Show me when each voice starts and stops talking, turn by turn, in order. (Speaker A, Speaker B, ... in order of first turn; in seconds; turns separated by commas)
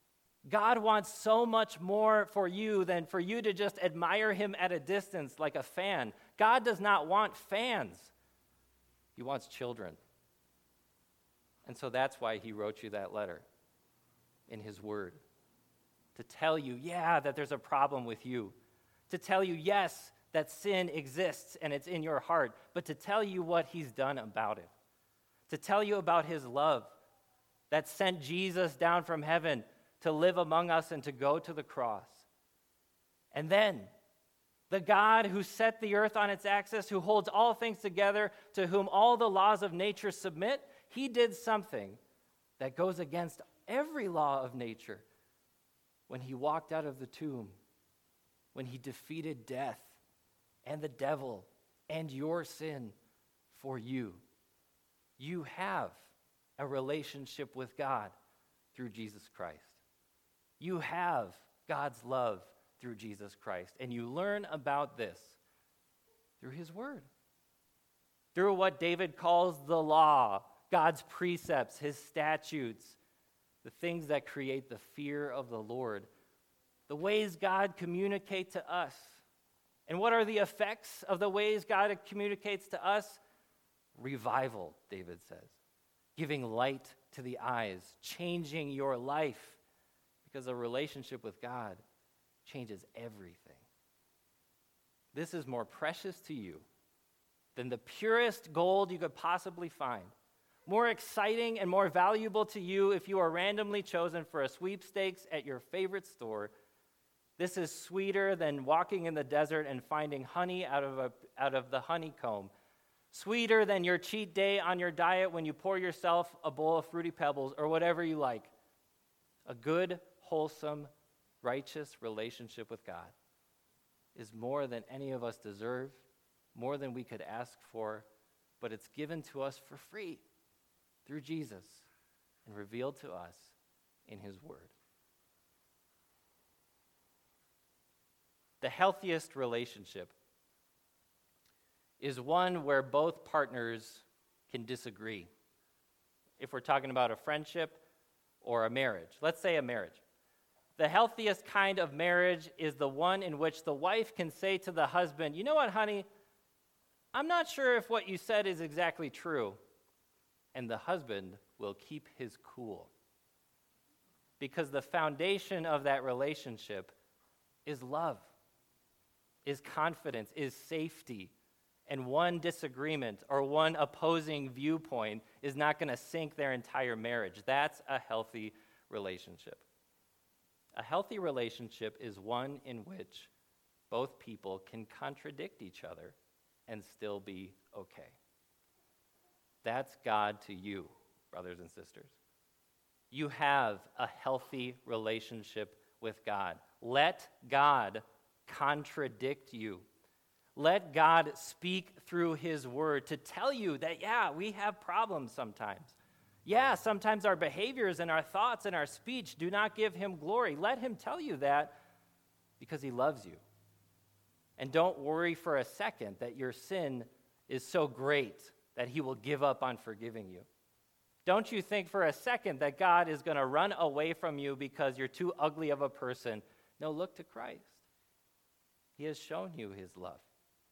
Speaker A: 0.5-8.1, Speaker A: 9.2-10.0, Speaker A: 11.6-13.5, Speaker A: 14.5-15.2, Speaker A: 16.1-18.6, Speaker A: 19.1-24.7, Speaker A: 25.5-26.9, Speaker A: 27.7-32.3, Speaker A: 33.3-33.9, Speaker A: 34.7-42.0, Speaker A: 42.6-45.0, Speaker A: 46.1-47.6, Speaker A: 48.5-50.0, Speaker A: 50.6-53.0, Speaker A: 53.5-54.2, Speaker A: 55.2-58.1, Speaker A: 58.7-59.8, Speaker A: 60.6-65.4, Speaker A: 66.4-67.1, Speaker A: 68.3-73.0, Speaker A: 73.6-76.1, Speaker A: 76.9-79.2, Speaker A: 79.9-83.2, Speaker A: 84.0-85.6, Speaker A: 86.2-89.6, Speaker A: 90.2-91.8, Speaker A: 92.4-93.7, Speaker A: 95.1-96.7, Speaker A: 97.5-100.1, Speaker A: 100.7-106.5, Speaker A: 107.4-112.5, Speaker A: 113.1-118.5, Speaker A: 119.5-120.9, Speaker A: 121.4-123.1, Speaker A: 124.1-128.1, Speaker A: 128.6-130.2, Speaker A: 131.1-131.9, Speaker A: 132.4-134.7, Speaker A: 138.6-140.1, Speaker A: 142.0-145.3, Speaker A: 146.4-147.8, Speaker A: 148.4-150.0, Speaker A: 150.8-156.1, Speaker A: 157.1-159.6, Speaker A: 160.5-162.9, Speaker A: 164.4-166.9, Speaker A: 167.7-168.3, Speaker A: 169.4-171.3, Speaker A: 171.9-179.6, Speaker A: 180.8-183.3, Speaker A: 183.9-188.2, Speaker A: 189.6-192.2, Speaker A: 193.1-199.9, Speaker A: 200.6-211.8, Speaker A: 212.6-213.4, Speaker A: 214.6-220.5, Speaker A: 221.2-227.8, Speaker A: 229.0-230.3